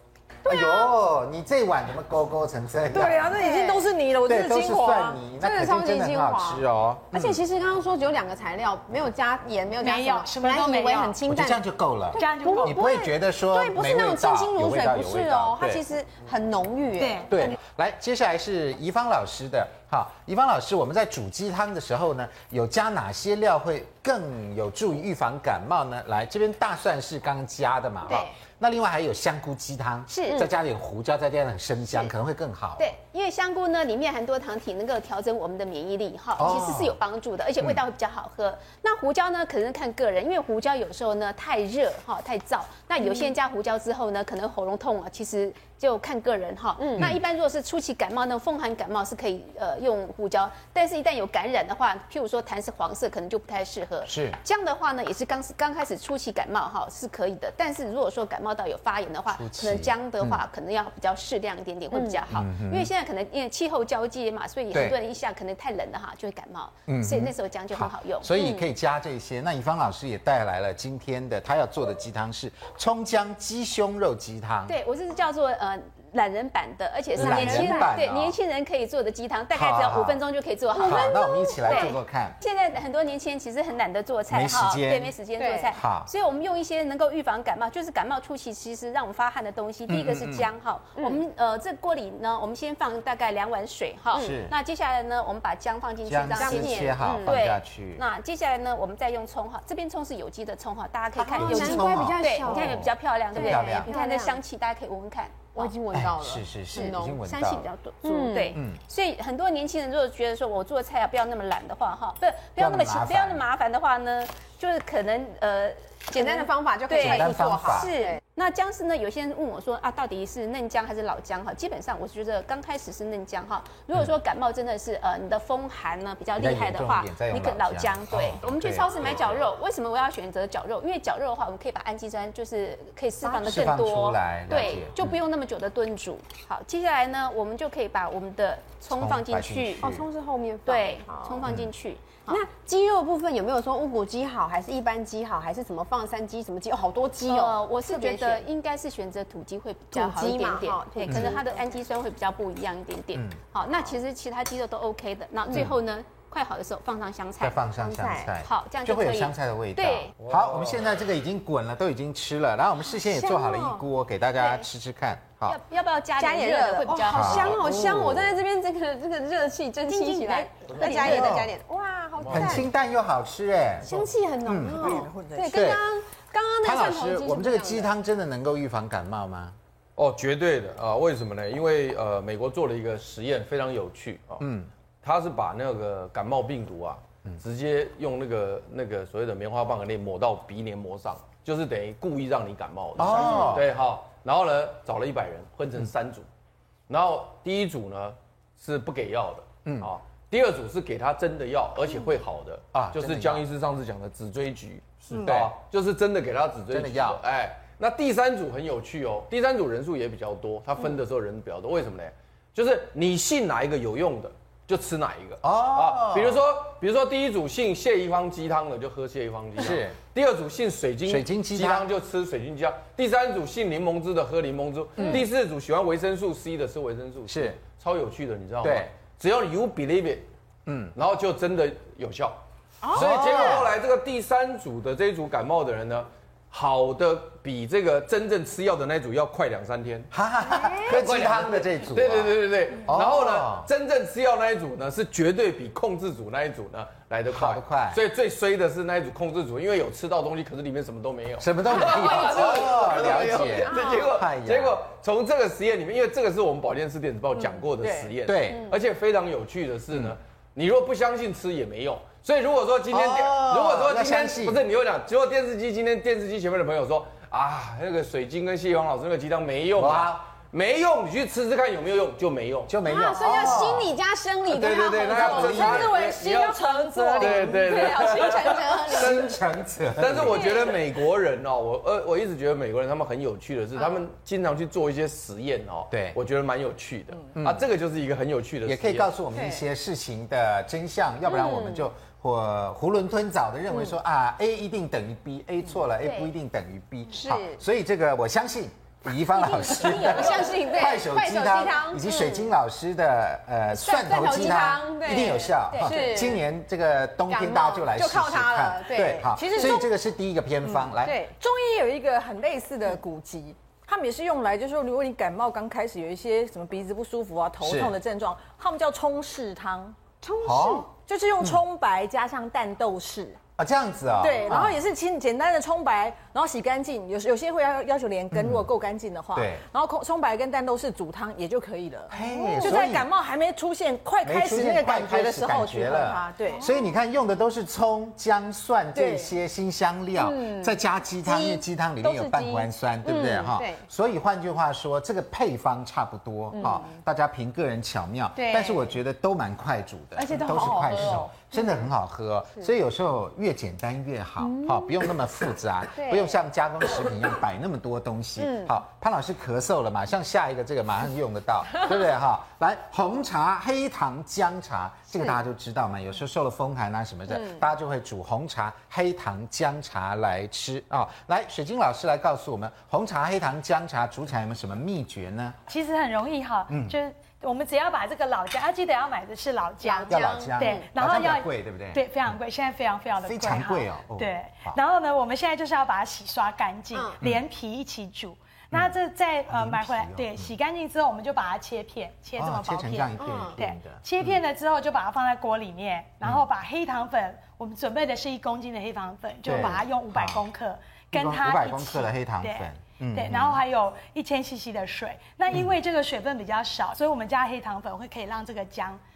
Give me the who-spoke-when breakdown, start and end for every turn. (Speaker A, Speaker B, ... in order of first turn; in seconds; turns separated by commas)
Speaker A: 0.4-3.4, Speaker B: 0.5-0.9, Speaker C: 2.9-5.2, Speaker B: 3.3-3.9, Speaker A: 4.2-7.4, Speaker B: 5.3-17.5, Speaker D: 9.8-11.2, Speaker A: 11.2-15.8, Speaker D: 12.1-12.9, Speaker D: 17.0-17.3, Speaker A: 17.3-32.9, Speaker B: 28.1-28.3, Speaker E: 30.1-30.5, Speaker E: 32.8-68.3, Speaker A: 36.4-37.0, Speaker B: 43.0-43.3, Speaker B: 46.8-47.2, Speaker A: 54.0-54.4, Speaker A: 59.3-60.4, Speaker B: 61.9-62.2, Speaker A: 62.3-62.9, Speaker A: 64.7-65.0, Speaker A: 66.9-74.8, Speaker B: 68.3-68.7, Speaker E: 74.7-105.7, Speaker B: 77.1-78.0, Speaker A: 77.2-78.4, Speaker A: 79.5-80.2, Speaker B: 80.7-81.9, Speaker A: 80.8-82.4, Speaker A: 84.3-85.1, Speaker B: 85.4-85.7, Speaker A: 85.7-86.1, Speaker A: 89.9-90.5, Speaker B: 91.0-91.2, Speaker A: 94.2-94.5, Speaker A: 96.0-98.0, Speaker B: 96.3-97.3, Speaker B: 101.2-104.4, Speaker A: 101.4-103.9, Speaker B: 105.5-108.6, Speaker A: 105.9-107.7, Speaker E: 108.0-139.9, Speaker A: 108.5-108.8, Speaker A: 112.6-113.4, Speaker B: 116.1-118.2, Speaker A: 116.9-117.9, Speaker A: 126.3-129.5, Speaker B: 133.2-133.7, Speaker A: 133.4-135.2, Speaker A: 138.9-140.0, Speaker B: 139.8-141.4, Speaker E: 140.6-142.4, Speaker B: 142.3-148.5, Speaker E: 147.2-157.6, Speaker B: 149.9-151.5, Speaker A: 151.1-151.4, Speaker A: 153.1-153.4, Speaker A: 155.5-155.8, Speaker A: 157.4-165.6, Speaker B: 157.8-158.3, Speaker E: 158.4-160.1, Speaker F: 160.2-160.8, Speaker B: 163.0-163.8, Speaker E: 164.4-164.7, Speaker E: 165.5-167.7, Speaker B: 166.2-172.7, Speaker A: 167.1-168.4, Speaker E: 169.9-170.9, Speaker C: 170.2-171.4, Speaker F: 170.7-171.1, Speaker A: 170.9-171.5, Speaker F: 172.2-172.6, Speaker A: 172.3-175.8, Speaker B: 173.8-177.9, Speaker C: 174.7-175.6, Speaker A: 176.6-179.6, Speaker F: 180.0-184.5, Speaker A: 184.4-184.7, Speaker F: 185.0-196.2, Speaker A: 193.0-193.7, Speaker F: 196.9-230.3, Speaker A: 199.6-199.9, Speaker A: 202.7-203.4, Speaker A: 205.2-205.5, Speaker A: 206.7-207.2, Speaker A: 215.4-216.4, Speaker A: 219.6-219.9, Speaker A: 221.0-221.9, Speaker A: 225.0-225.3, Speaker A: 227.3-227.6, Speaker A: 228.6-228.9, Speaker A: 230.7-230.9, Speaker F: 230.9-232.4, Speaker B: 232.8-233.6, Speaker F: 232.9-240.1, Speaker A: 232.9-233.7, Speaker A: 240.1-243.7, Speaker B: 240.5-241.0, Speaker F: 240.9-272.7, Speaker A: 247.3-248.0, Speaker A: 251.4-254.8, Speaker B: 253.7-254.0, Speaker C: 257.8-258.1, Speaker A: 258.2-258.7, Speaker A: 262.9-264.6, Speaker A: 269.8-270.2, Speaker A: 272.7-273.9, Speaker B: 272.8-276.0, Speaker A: 274.5-275.9, Speaker F: 274.6-279.4, Speaker C: 275.0-278.6, Speaker B: 277.1-279.3, Speaker A: 278.9-280.5, Speaker F: 279.9-289.1, Speaker B: 280.3-280.8, Speaker A: 285.9-286.2, Speaker A: 287.3-287.7, Speaker A: 288.6-311.2, Speaker B: 289.4-289.6, Speaker B: 291.3-291.9, Speaker B: 297.1-297.5, Speaker B: 299.4-302.5, Speaker C: 299.5-300.7, Speaker B: 303.7-306.4, Speaker E: 305.7-306.1, Speaker C: 305.8-306.1, Speaker B: 307.3-309.9, Speaker C: 309.3-309.8, Speaker C: 310.7-320.0, Speaker B: 311.0-311.3, Speaker A: 317.6-317.9, Speaker B: 320.2-320.9, Speaker A: 320.4-320.9, Speaker C: 320.9-323.4, Speaker A: 323.6-324.8, Speaker C: 324.2-336.7, Speaker A: 328.3-328.7, Speaker A: 329.3-329.6, Speaker A: 332.1-333.1, Speaker B: 332.5-332.9, Speaker A: 334.2-375.6, Speaker B: 336.4-336.9, Speaker C: 338.9-339.3, Speaker B: 340.2-340.7, Speaker C: 342.0-343.4, Speaker B: 343.1-343.8, Speaker B: 346.5-346.9, Speaker B: 348.4-348.9, Speaker B: 350.2-351.8, Speaker C: 350.3-351.2, Speaker B: 354.5-354.8, Speaker B: 355.9-356.4, Speaker B: 358.4-358.7, Speaker D: 375.7-409.0, Speaker A: 376.7-377.0, Speaker B: 379.8-380.9, Speaker A: 380.1-382.0, Speaker A: 383.2-384.8, Speaker A: 389.5-390.5, Speaker A: 392.4-394.4, Speaker B: 393.2-393.6, Speaker A: 399.4-400.5, Speaker A: 401.1-403.6